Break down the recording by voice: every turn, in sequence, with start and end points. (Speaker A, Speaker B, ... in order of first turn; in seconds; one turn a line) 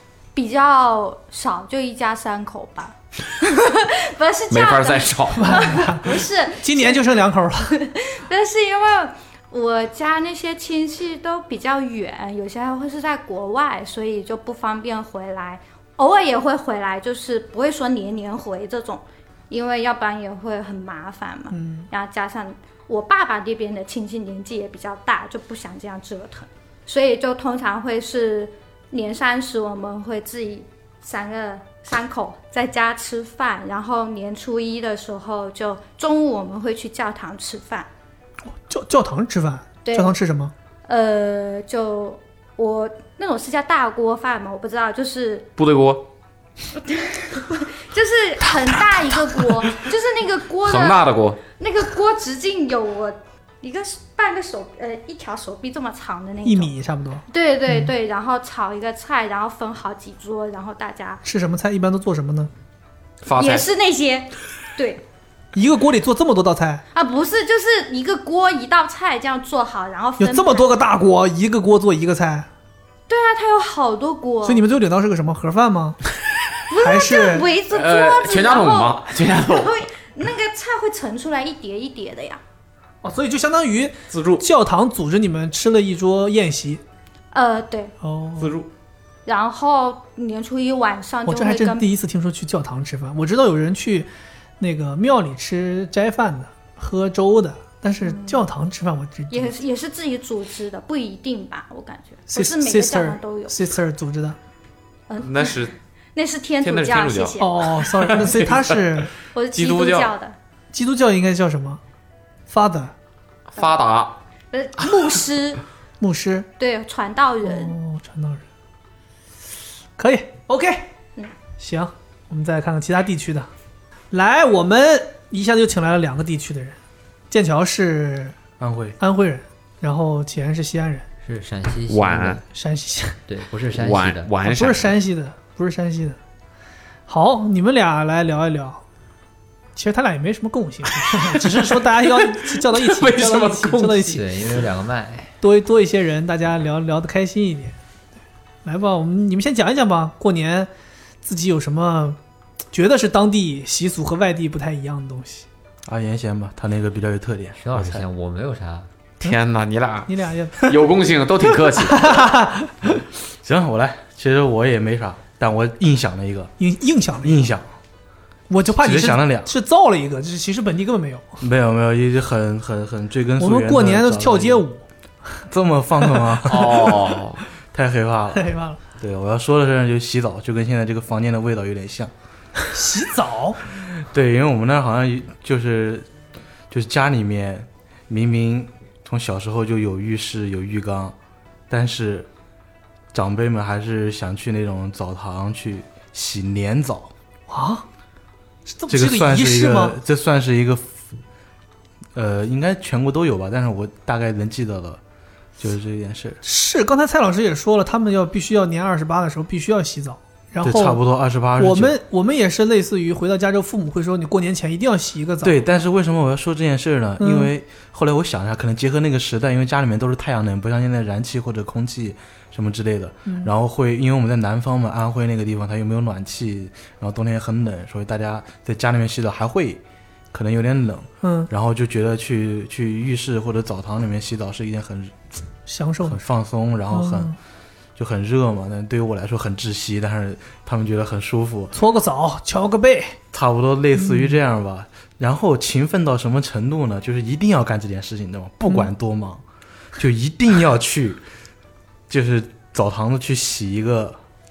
Speaker A: 0.3-7.0
Speaker B: 4.5-5.7
Speaker C: 5.3-7.7
Speaker A: 7.7-37.9
Speaker C: 21.5-21.9
Speaker C: 38.7-40.5
Speaker A: 39.8-40.1
Speaker A: 40.9-45.5
Speaker B: 45.6-46.0
Speaker A: 46.8-56.7
Speaker B: 48.6-49.3
Speaker B: 50.6-51.4
Speaker C: 56.4-57.9
Speaker A: 57.3-61.2
Speaker C: 61.2-62.5
Speaker B: 63.2-63.7
Speaker A: 63.4-65.0
Speaker C: 65.5-66.8
Speaker A: 66.9-70.7
Speaker C: 70.2-72.5
Speaker A: 73.1-74.6
Speaker C: 74.4-76.0
Speaker A: 76.7-82.4
Speaker C: 76.8-77.5
Speaker B: 77.7-79.8
Speaker C: 83.0-86.8
Speaker B: 84.1-84.4
Speaker A: 87.3-87.9
Speaker C: 88.0-88.5
Speaker B: 88.4-88.7
Speaker A: 89.2-91.8
Speaker C: 91.2-99.5
Speaker A: 98.0-98.4
Speaker A: 99.3-103.5
Speaker C: 102.3-104.4
Speaker A: 105.1-107.6
Speaker B: 105.2-105.7
Speaker B: 106.6-108.8
Speaker C: 107.4-109.1
Speaker A: 109.3-110.3
Speaker B: 109.5-110.1
Speaker C: 110.7-111.8
Speaker C: 112.5-112.9
Speaker B: 113.5-114.2
Speaker A: 114.5-115.6
Speaker C: 116.0-116.5
Speaker A: 116.6-117.8
Speaker C: 117.4-118.4
Speaker C: 120.0-120.9
Speaker C: 121.6-123.5
Speaker C: 124.1-126.8
Speaker C: 127.3-128.3
Speaker D: 128.6-129.0
Speaker C: 129.0-131.1
Speaker E: 131.2-132.4
Speaker B: 131.9-132.4
Speaker C: 132.5-133.2
Speaker E: 133.3-134.3
Speaker B: 133.7-134.9
Speaker C: 134.4-136.2
Speaker C: 137.1-138.8
Speaker C: 139.8-144.2
Speaker B: 141.0-144.6
Speaker E: 144.1-145.3
Speaker C: 145.4-147.7
Speaker C: 148.6-150.7
Speaker C: 151.2-152.2
Speaker C: 152.7-155.4
Speaker D: 155.8-158.1
Speaker E: 157.6-158.9
Speaker B: 159.2-162.1
Speaker C: 160.1-160.8
Speaker C: 161.6-162.9
Speaker D: 163.4-166.5
Speaker C: 166.6-167.5
Speaker D: 167.2-167.7
Speaker C: 168.5-171.4
Speaker D: 168.7-169.5
Speaker D: 171.4-174.6
Speaker C: 173.4-174.8
Speaker D: 175.5-176.9
Speaker B: 176.4-177.4
Speaker D: 177.7-182.1
Speaker C: 178.3-178.8
Speaker C: 182.7-183.6
Speaker D: 184.0-186.1
Speaker D: 186.7-191.1
Speaker D: 191.7-192.3
Speaker D: 193.1-197.1
Speaker C: 197.5-197.8
Speaker C: 198.7-200.0
Speaker D: 198.9-200.9
Speaker D: 202.1-205.0
Speaker D: 205.6-206.4
Speaker C: 206.4-211.0
Speaker D: 210.6-212.0
Speaker C: 211.6-215.6
Speaker D: 215.4-235.2
Speaker C: 217.2-217.5
Speaker C: 231.2-231.5
Speaker C: 235.7-236.2
Speaker D: 236.0-237.3
Speaker C: 236.9-237.3
Speaker D: 237.9-241.7
Speaker C: 241.7-243.2
Speaker D: 243.3-249.4
Speaker C: 244.0-244.4
Speaker D: 250.0-251.2
Speaker D: 252.1-254.2